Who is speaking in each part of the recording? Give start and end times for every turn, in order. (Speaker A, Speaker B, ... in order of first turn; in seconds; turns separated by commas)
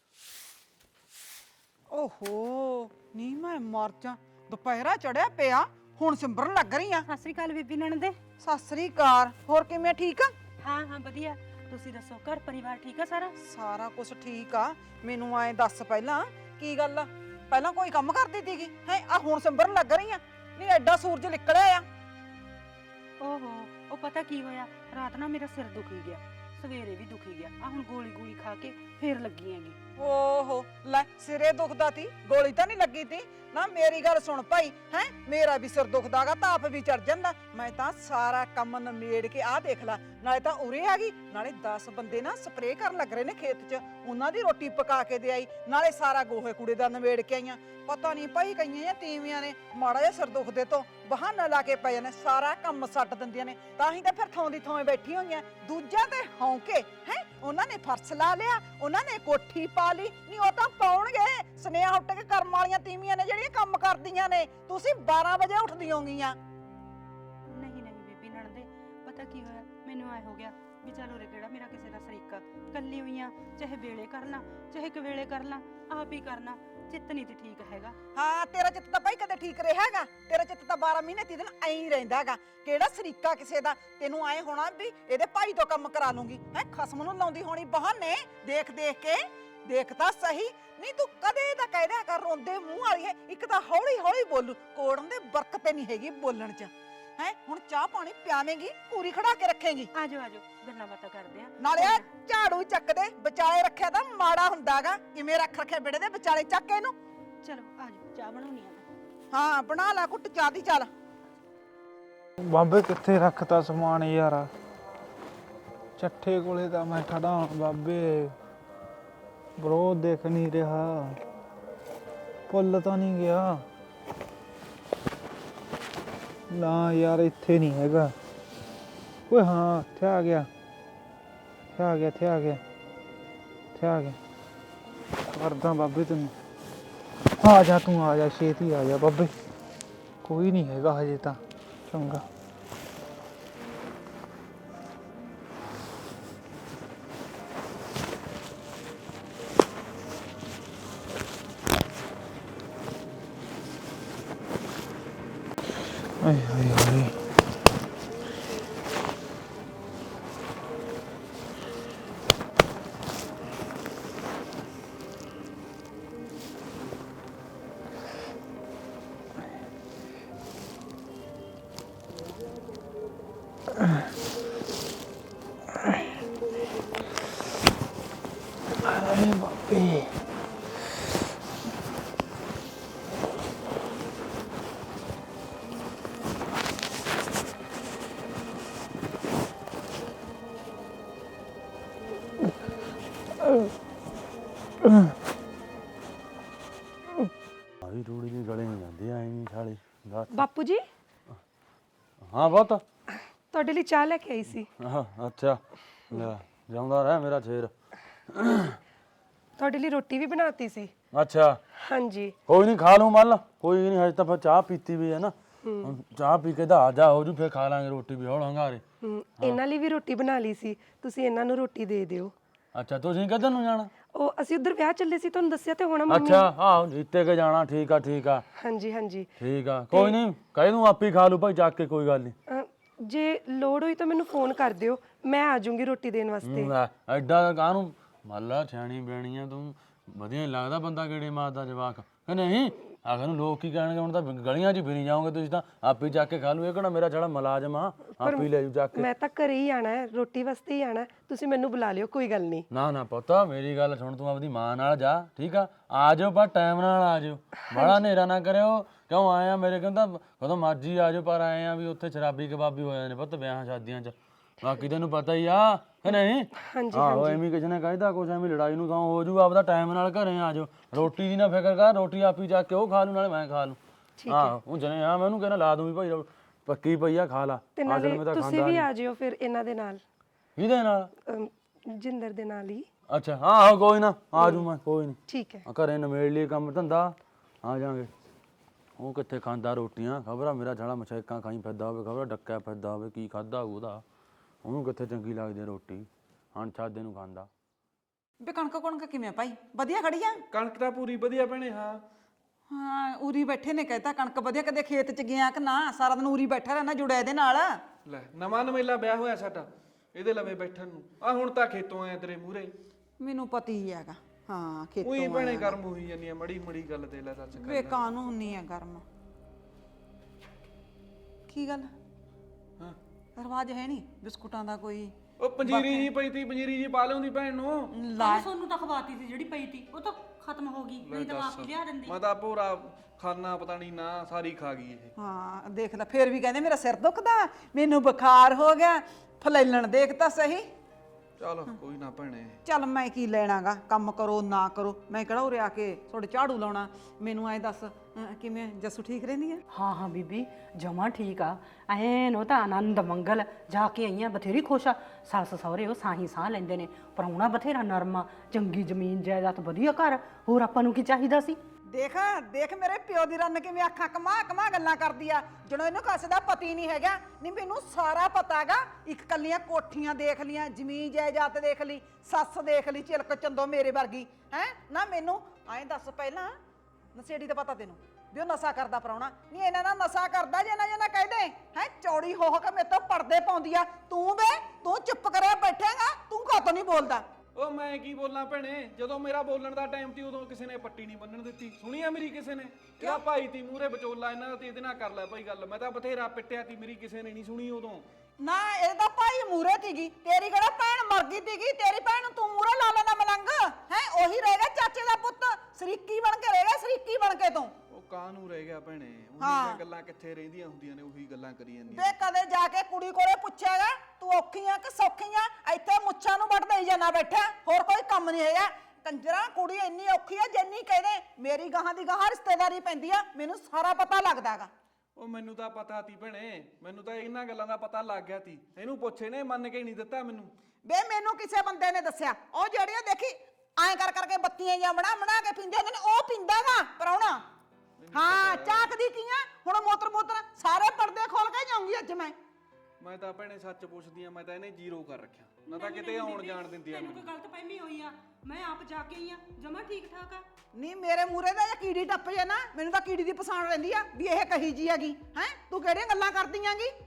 Speaker A: 1.9-7.0, Speaker B: 7.0-8.2, Speaker A: 8.4-10.3, Speaker B: 10.6-13.3, Speaker A: 13.4-21.9, Speaker B: 23.2-29.8, Speaker A: 30.0-66.4, Speaker B: 67.5-78.0, Speaker A: 78.1-99.9, Speaker B: 99.9-102.1, Speaker A: 101.6-107.0, Speaker B: 107.4-108.8, Speaker A: 109.3-110.9, Speaker C: 112.4-114.5, Speaker C: 116.0-118.3, Speaker C: 119.6-121.2, Speaker C: 122.5-123.6, Speaker C: 126.5-128.1, Speaker C: 129.3-130.5, Speaker C: 131.8-132.6, Speaker C: 133.8-134.2, Speaker C: 135.3-136.3, Speaker C: 137.4-139.3, Speaker C: 140.2-142.2, Speaker C: 156.2-157.1, Speaker C: 178.9-180.1, Speaker D: 197.8-200.4, Speaker E: 200.3-200.8, Speaker D: 202.2-202.8, Speaker E: 203.5-204.7, Speaker D: 204.8-207.7, Speaker D: 208.3-208.8, Speaker E: 209.6-210.9, Speaker D: 211.1-211.6, Speaker E: 211.8-212.3, Speaker D: 212.5-218.8, Speaker E: 215.6-215.9, Speaker E: 219.0-222.3, Speaker D: 222.8-223.9, Speaker E: 224.1-226.5, Speaker D: 226.1-228.4, Speaker E: 228.6-229.3, Speaker D: 229.4-232.3, Speaker E: 232.5-236.7, Speaker D: 236.4-249.1, Speaker E: 248.2-252.7, Speaker D: 252.7-278.9, Speaker E: 257.7-258.0, Speaker E: 266.6-267.4, Speaker E: 274.2-274.6, Speaker E: 277.8-280.0, Speaker D: 280.6-281.1, Speaker E: 281.3-282.9, Speaker D: 283.1-288.1, Speaker E: 284.4-284.6, Speaker E: 285.3-285.6, Speaker D: 289.0-294.0, Speaker D: 294.6-297.5, Speaker A: 298.4-300.4, Speaker F: 300.5-302.0, Speaker A: 302.7-307.8, Speaker F: 308.1-312.7, Speaker A: 313.2-315.8, Speaker F: 315.0-318.0, Speaker A: 317.6-319.0, Speaker A: 321.5-321.9, Speaker A: 323.4-326.1, Speaker F: 325.4-327.9, Speaker A: 327.9-328.5, Speaker B: 328.2-332.2, Speaker F: 331.0-335.1, Speaker A: 335.2-340.7, Speaker F: 341.4-342.6, Speaker A: 342.7-349.6, Speaker B: 349.7-361.6, Speaker A: 361.9-376.6, Speaker A: 377.1-387.3, Speaker F: 387.6-398.1, Speaker A: 398.4-407.7, Speaker F: 407.9-412.2, Speaker A: 409.4-409.8, Speaker A: 411.9-424.7, Speaker F: 425.2-430.5, Speaker A: 430.8-437.4, Speaker F: 438.0-438.9, Speaker A: 438.1-442.3, Speaker F: 443.0-447.3, Speaker B: 445.7-450.4, Speaker A: 450.7-456.9